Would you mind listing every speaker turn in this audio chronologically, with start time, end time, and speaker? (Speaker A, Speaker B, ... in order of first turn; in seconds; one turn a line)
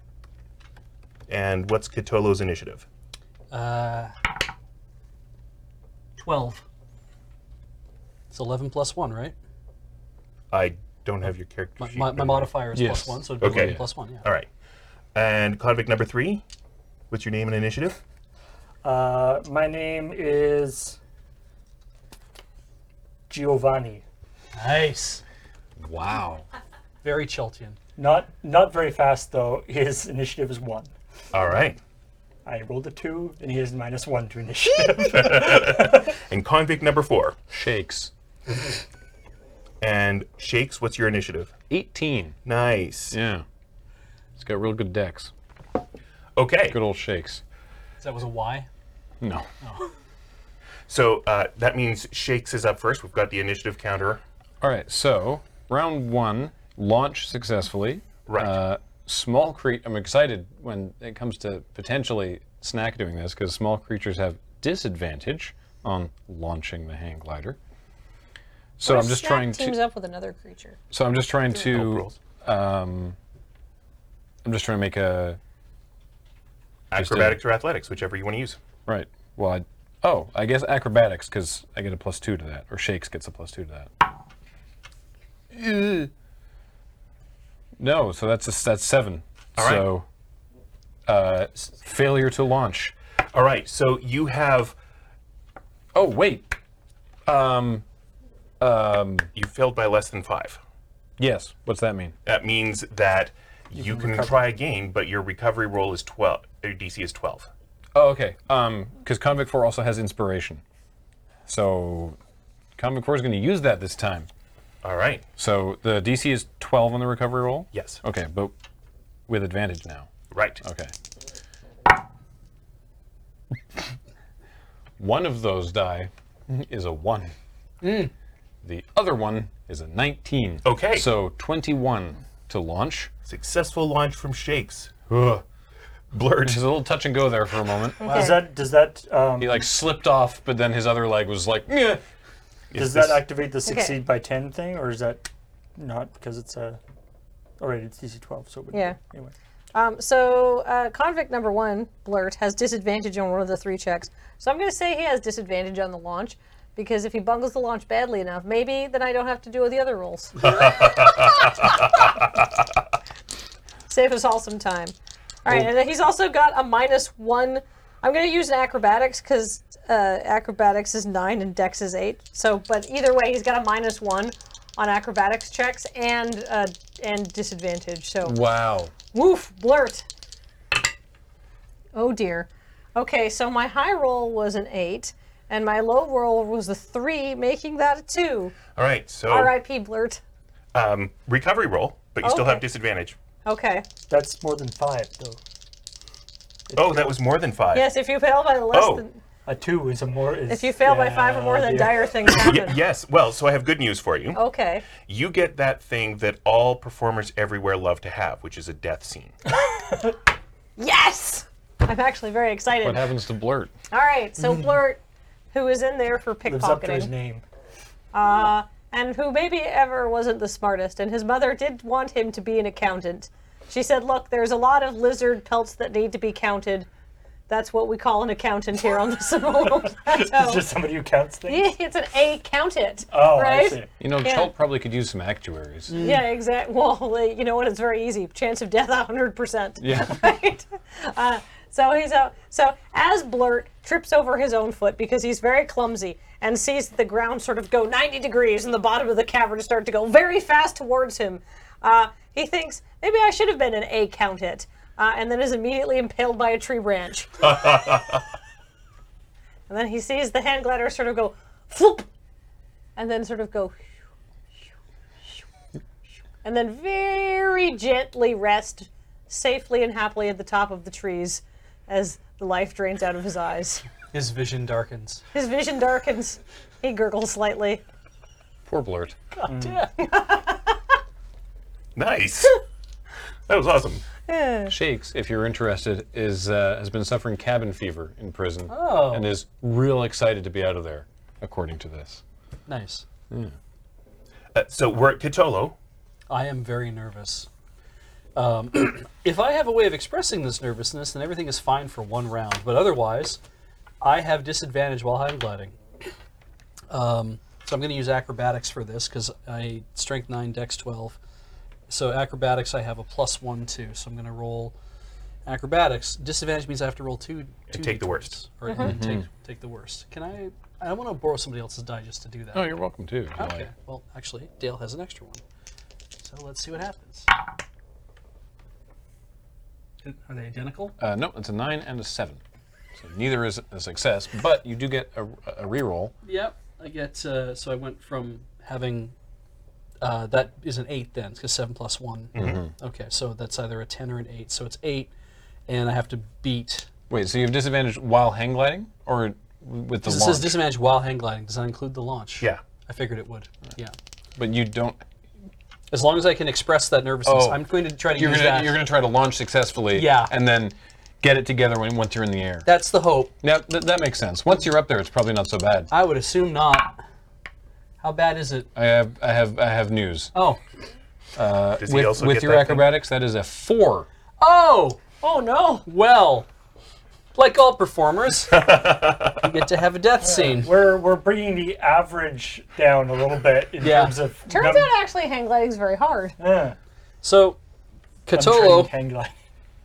Speaker A: 1.3-2.9
Speaker B: 3.5-4.1
Speaker B: 6.2-6.6
Speaker B: 8.3-9.3
Speaker A: 10.5-12.5
Speaker B: 11.8-14.2
Speaker C: 12.7-13.8
Speaker A: 13.4-14.5
Speaker A: 15.1-16.4
Speaker A: 17.1-18.0
Speaker D: 18.8-21.0
Speaker D: 23.3-24.0
Speaker B: 24.6-25.2
Speaker C: 25.8-26.5
Speaker B: 27.0-27.8
Speaker D: 28.0-30.9
Speaker A: 31.3-31.8
Speaker D: 32.5-36.1
Speaker A: 35.0-37.4
Speaker C: 37.5-38.1
Speaker A: 39.8-41.5
Speaker C: 41.7-42.4
Speaker A: 42.4-43.2
Speaker C: 43.1-43.4
Speaker C: 44.4-45.3
Speaker A: 46.4-46.8
Speaker C: 46.7-47.4
Speaker B: 48.0-48.7
Speaker C: 49.2-49.5
Speaker A: 50.9-54.2
Speaker C: 54.6-67.6
Speaker A: 58.3-58.6
Speaker C: 68.8-69.8
Speaker E: 68.8-70.8
Speaker C: 70.9-73.2
Speaker A: 71.5-72.2
Speaker C: 74.4-75.4
Speaker A: 76.9-78.6
Speaker C: 76.9-77.4
Speaker C: 78.8-83.9
Speaker C: 85.5-86.1
Speaker C: 87.8-90.0
Speaker A: 89.6-89.8
Speaker C: 91.1-92.9
Speaker A: 93.3-94.8
Speaker C: 95.9-96.6
Speaker C: 97.3-97.8
Speaker C: 98.6-99.3
Speaker A: 99.3-100.6
Speaker C: 101.2-102.1
Speaker A: 102.2-107.5
Speaker D: 103.7-104.4
Speaker C: 107.9-110.6
Speaker C: 111.5-112.2
Speaker C: 112.8-114.3
Speaker A: 114.8-115.2
Speaker C: 115.4-118.5
Speaker A: 117.7-118.0
Speaker C: 119.3-120.1
Speaker A: 120.3-120.6
Speaker C: 120.6-120.9
Speaker C: 125.0-127.3
Speaker B: 127.8-128.1
Speaker C: 128.6-133.1
Speaker A: 130.6-131.1
Speaker A: 133.2-134.9
Speaker C: 135.1-135.4
Speaker A: 136.1-136.6
Speaker C: 136.4-138.0
Speaker E: 138.0-138.4
Speaker D: 138.0-139.7
Speaker C: 139.4-142.0
Speaker A: 142.7-143.2
Speaker D: 142.7-145.2
Speaker E: 143.6-144.0
Speaker D: 145.8-146.8
Speaker D: 147.6-149.3
Speaker E: 148.7-149.0
Speaker E: 149.7-160.7
Speaker A: 160.4-162.2
Speaker E: 163.9-178.4
Speaker C: 178.2-178.9
Speaker E: 179.1-180.0
Speaker E: 181.9-188.6
Speaker A: 188.7-189.5
Speaker E: 189.3-190.2
Speaker A: 190.7-193.2
Speaker E: 192.2-192.6
Speaker E: 193.4-193.8
Speaker D: 194.1-195.4
Speaker D: 196.7-197.1
Speaker A: 196.7-197.9
Speaker E: 197.7-199.2
Speaker A: 198.7-199.0
Speaker D: 199.4-202.4
Speaker E: 200.5-202.8
Speaker A: 202.3-204.4
Speaker E: 204.3-204.8
Speaker A: 205.0-209.3
Speaker E: 210.8-213.0
Speaker C: 212.8-213.7
Speaker E: 213.9-215.0
Speaker E: 215.5-217.1
Speaker D: 216.4-217.4
Speaker E: 218.1-226.9
Speaker E: 227.5-230.7
Speaker D: 229.7-231.7
Speaker E: 231.5-234.5
Speaker D: 233.1-233.9
Speaker C: 234.0-235.9
Speaker B: 235.9-236.2
Speaker E: 235.9-257.3
Speaker C: 239.8-240.2
Speaker A: 257.4-258.2
Speaker E: 259.7-262.1
Speaker E: 262.9-263.8
Speaker E: 266.4-273.8
Speaker B: 274.1-275.2
Speaker E: 275.3-277.8
Speaker C: 278.6-279.2
Speaker B: 279.4-279.9
Speaker D: 279.4-279.8
Speaker E: 280.0-280.7
Speaker A: 281.9-282.6
Speaker A: 283.5-284.0
Speaker E: 284.3-284.7
Speaker C: 284.7-292.2
Speaker B: 288.7-289.3
Speaker B: 292.7-293.1
Speaker A: 294.5-295.7
Speaker B: 296.3-297.5
Speaker B: 298.3-303.4
Speaker B: 304.0-305.8
Speaker B: 306.9-311.2
Speaker B: 311.9-314.7
Speaker B: 315.4-322.7
Speaker A: 317.7-318.4
Speaker E: 318.7-318.9
Speaker C: 318.8-319.2
Speaker C: 322.5-323.7
Speaker B: 323.4-325.4
Speaker B: 326.2-327.3
Speaker B: 330.0-330.9
Speaker C: 331.0-332.4
Speaker C: 332.9-336.1
Speaker B: 336.2-339.1
Speaker B: 340.0-345.1
Speaker A: 342.3-342.6
Speaker C: 342.4-342.7
Speaker B: 345.7-346.9
Speaker C: 347.1-350.6
Speaker B: 350.0-353.9
Speaker C: 354.4-355.0
Speaker B: 355.9-358.8
Speaker C: 357.2-362.7
Speaker B: 359.9-360.3
Speaker B: 362.6-363.3
Speaker C: 363.4-365.9
Speaker B: 365.9-367.0
Speaker B: 368.0-368.7
Speaker C: 368.7-370.3
Speaker B: 370.3-370.6
Speaker C: 371.4-374.1
Speaker A: 371.8-372.9
Speaker B: 374.4-375.0
Speaker E: 375.2-375.9
Speaker B: 375.9-376.5
Speaker B: 377.3-380.7
Speaker A: 378.5-379.4
Speaker D: 380.2-384.9
Speaker B: 383.8-384.2
Speaker E: 384.5-386.4
Speaker D: 386.4-386.8
Speaker B: 387.2-387.6
Speaker B: 388.2-388.9
Speaker D: 388.3-389.3